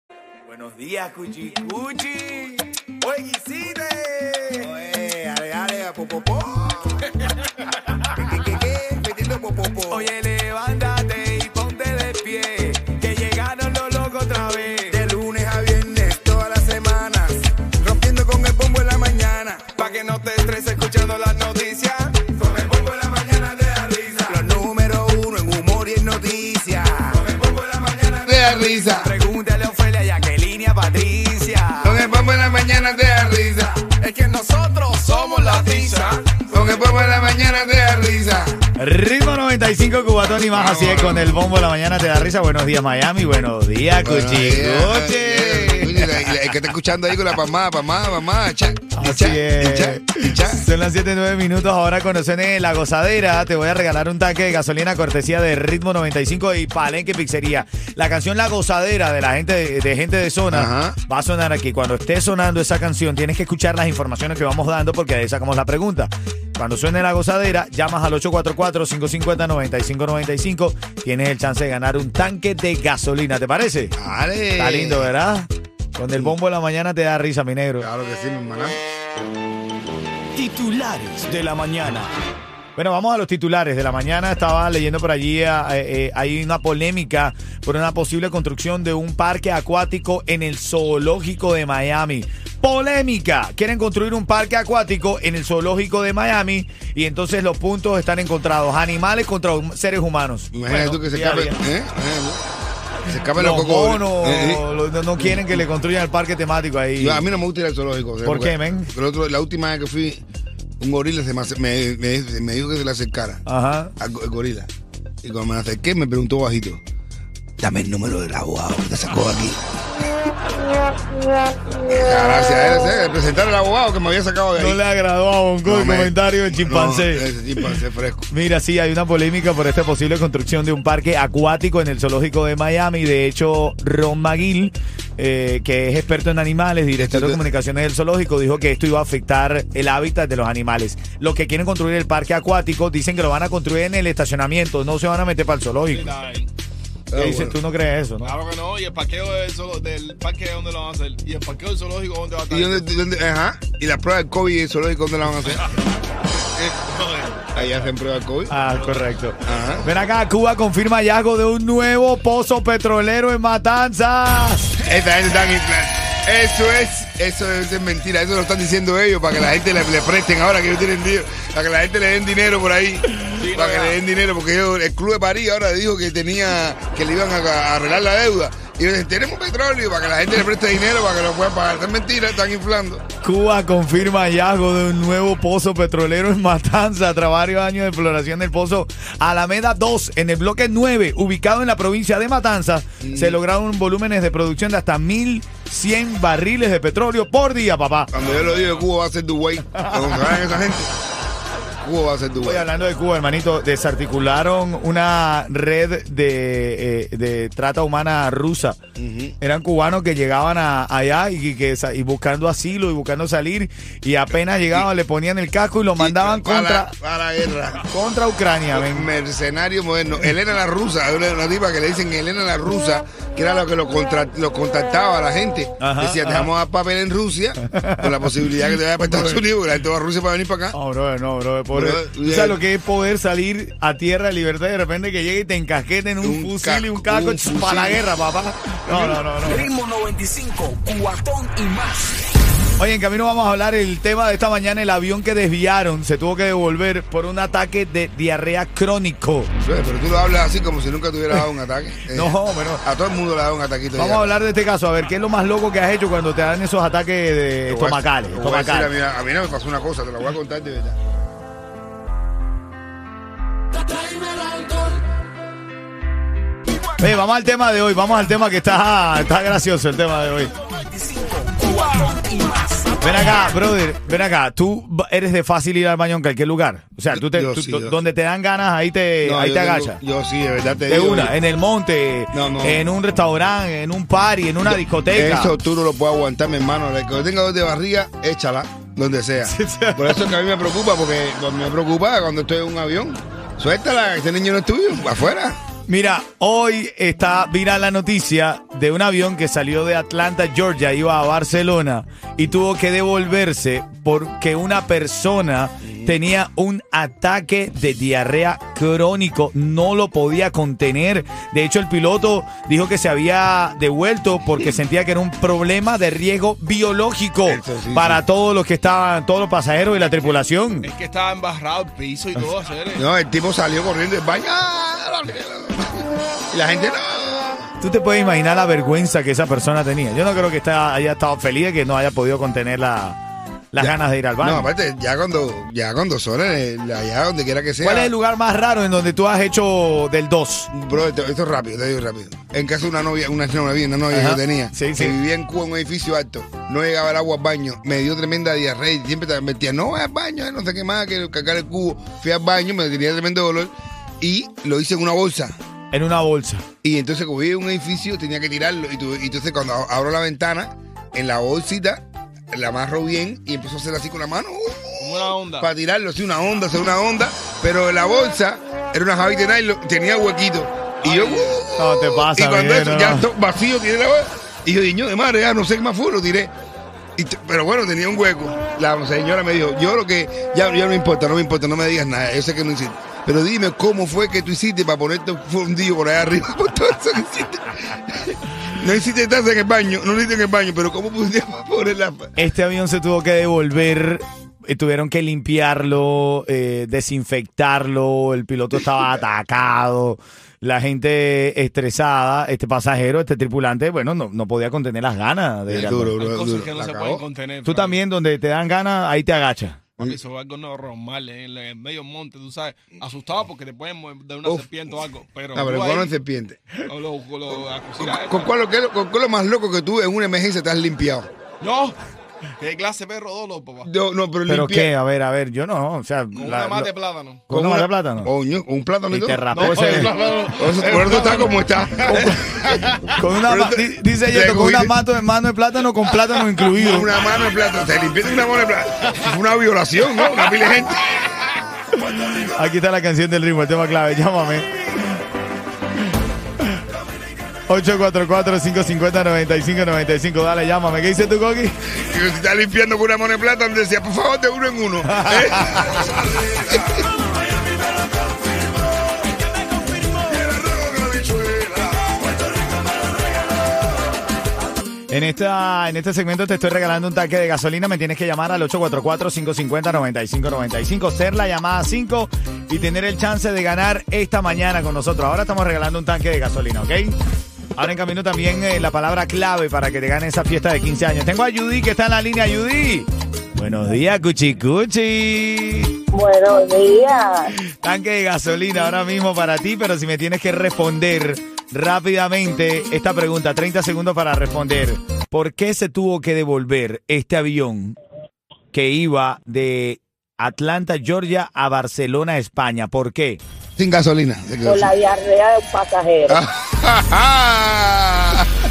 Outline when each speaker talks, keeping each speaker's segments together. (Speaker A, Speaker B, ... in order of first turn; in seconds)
Speaker A: 0.5-4.7, 9.9-15.0, 22.5-24.0, 27.2-28.3, 28.9-32.0, 34.4-35.6, 38.8-46.6, 48.9-73.9, 74.5-77.9, 80.3-82.1, 82.8-101.6, 103.3-107.2, 108.2-108.9, 113.5-113.9, 124.5-127.2, 128.3-146.1, 147.1-148.4, 158.5-164.8, 183.2-198.1, 199.7-200.4, 202.4-208.8, 209.4-216.9, 217.9-219.1, 225.8-226.5, 227.7-228.3, 229.0-229.4, 230.7-239.7, 242.8-249.5, 252.1-252.8, 253.9-258.9, 267.0-270.5, 273.0-280.0, 280.9-285.6, 289.4-290.3, 295.9-320.9, 327.8-333.2, 333.7-334.7, 337.8-340.7, 344.1-345.2, 355.9-356.6, 371.7-373.3, 392.4-406.1, 407.6-409.8, 424.5-426.9, 427.5-428.3, 429.1-430.2, 432.1-432.4, 433.0-437.1, 442.0-445.2, 447.7-451.8, 455.0-456.0, 465.1-477.1, 477.8-485.9, 487.6-497.9, 498.7-503.4
Speaker B: 4.6-7.1, 8.1-10.1, 14.9-19.7, 24.1-27.2, 28.2-29.1, 31.8-33.8, 36.5-38.5, 40.5-41.5, 44.0-50.6, 60.5-61.0, 74.0-75.1, 77.8-78.8, 100.5-102.4, 103.0-104.6, 105.2-105.6, 107.0-110.2, 110.8-113.4, 114.0-114.7, 115.2-116.8, 117.6-119.6, 121.8-124.8, 125.6-128.3, 136.9-137.4, 147.1-147.6, 152.5-155.7, 157.5-158.5, 159.4-159.9, 164.8-183.0, 193.0-193.4, 198.1-200.9, 201.8-202.7, 208.9-209.3, 216.0-217.9, 218.7-230.8, 231.7-232.6, 236.2-238.0, 238.9-239.2, 249.6-254.4, 257.7-261.0, 277.1-278.0, 279.2-281.3, 282.3-282.8, 284.6-295.6, 305.8-306.1, 317.5-318.2, 322.9-327.7, 333.8-338.1, 340.7-355.5, 356.8-376.5, 377.2-392.3, 405.7-407.2, 414.4-414.7, 415.5-416.7, 418.0-421.3, 423.8-424.9, 427.5-432.9, 433.4-434.9, 436.7-442.6, 451.9-457.1, 460.1-462.7, 503.8-504.9, 506.3-508.5
Speaker C: 19.8-22.1, 34.0-36.3, 239.4-242.2, 270.7-273.2
Speaker D: 19.9-20.6, 145.9-146.5, 148.2-152.8, 156.5-157.5, 173.4-173.8, 320.8-323.0, 365.0-365.7, 371.0-371.6, 406.3-408.0, 410.1-416.0, 416.9-418.4, 421.6-422.0, 422.6-423.9, 426.3-427.4, 429.5-431.5
Speaker E: 486.1-487.5, 504.6-506.4